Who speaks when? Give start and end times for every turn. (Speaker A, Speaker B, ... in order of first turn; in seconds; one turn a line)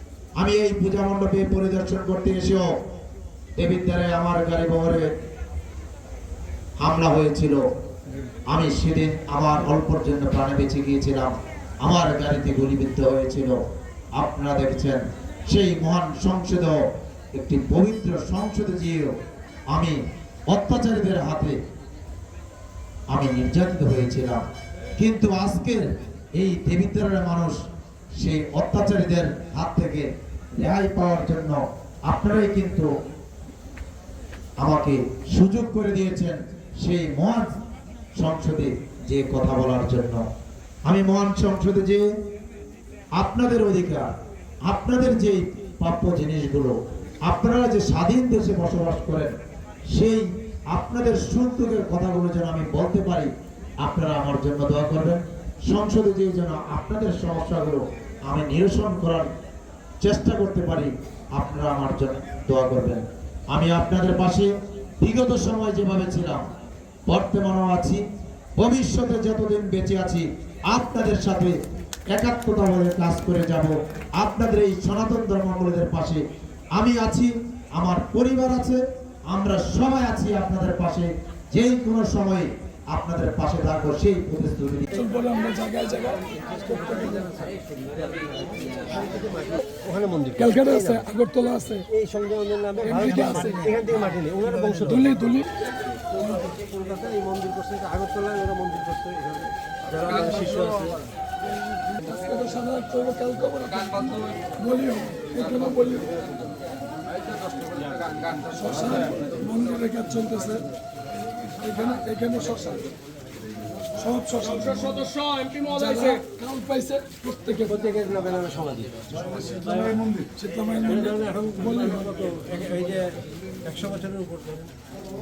Speaker A: 0.4-2.7
Speaker A: 3.6-5.1
Speaker A: 6.8-7.6
Speaker A: 8.5-13.6
Speaker A: 14.1-19.1
Speaker A: 19.7-21.6
Speaker A: 23.1-24.4
Speaker A: 25.0-27.6
Speaker A: 28.2-32.9
Speaker A: 34.6-37.5
Speaker A: 38.2-40.2
Speaker A: 40.9-42.0
Speaker A: 43.2-44.1
Speaker A: 44.6-49.4
Speaker A: 49.9-59.3
Speaker A: 60.0-66.5
Speaker A: 67.1-68.0
Speaker A: 68.6-71.6
Speaker A: 72.1-85.0
Speaker B: 85.0-86.2
Speaker C: 86.6-90.8
Speaker B: 86.8-87.1
Speaker B: 90.4-91.9
Speaker C: 91.9-95.2
Speaker B: 93.0-93.6
Speaker B: 95.0-95.5
Speaker C: 96.1-101.0
Speaker B: 102.0-106.2
Speaker B: 108.4-110.7
Speaker B: 111.6-112.9
Speaker B: 114.0-117.8
Speaker C: 117.7-120.0
Speaker B: 119.8-121.1
Speaker C: 120.9-124.6